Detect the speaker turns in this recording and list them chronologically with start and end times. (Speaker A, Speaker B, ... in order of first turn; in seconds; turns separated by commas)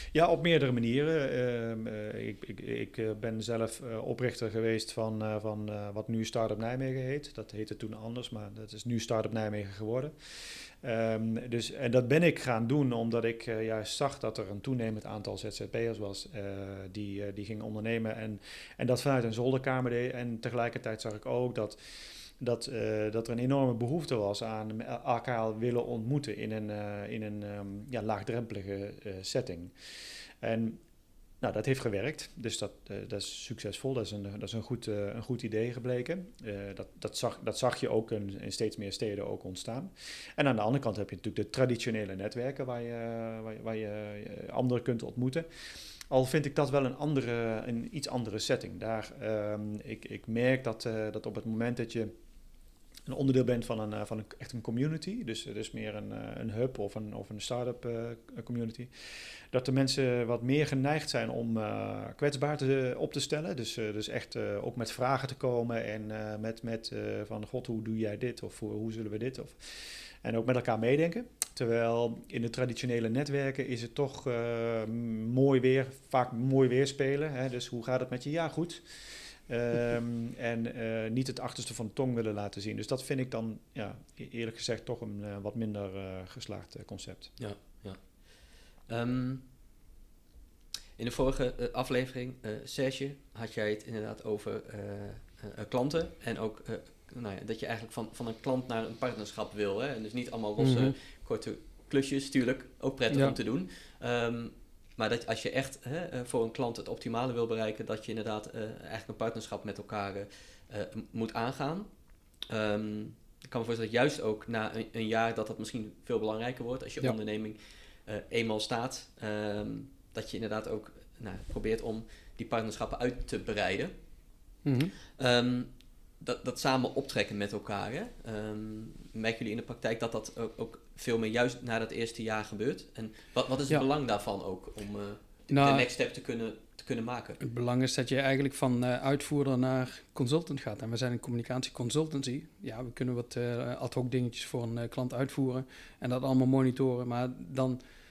Speaker A: 0.1-21.8, Speaker A: 22.4-29.7, Speaker A: 30.4-30.8, Speaker A: 31.4-45.5, Speaker A: 46.1-52.1, Speaker A: 53.1-87.3, Speaker B: 87.4-89.4, Speaker B: 91.0-111.9, Speaker C: 100.6-100.9, Speaker C: 103.1-103.3, Speaker B: 112.5-123.9, Speaker C: 124.6-124.9, Speaker B: 125.1-137.4, Speaker C: 135.5-135.9, Speaker C: 137.4-147.8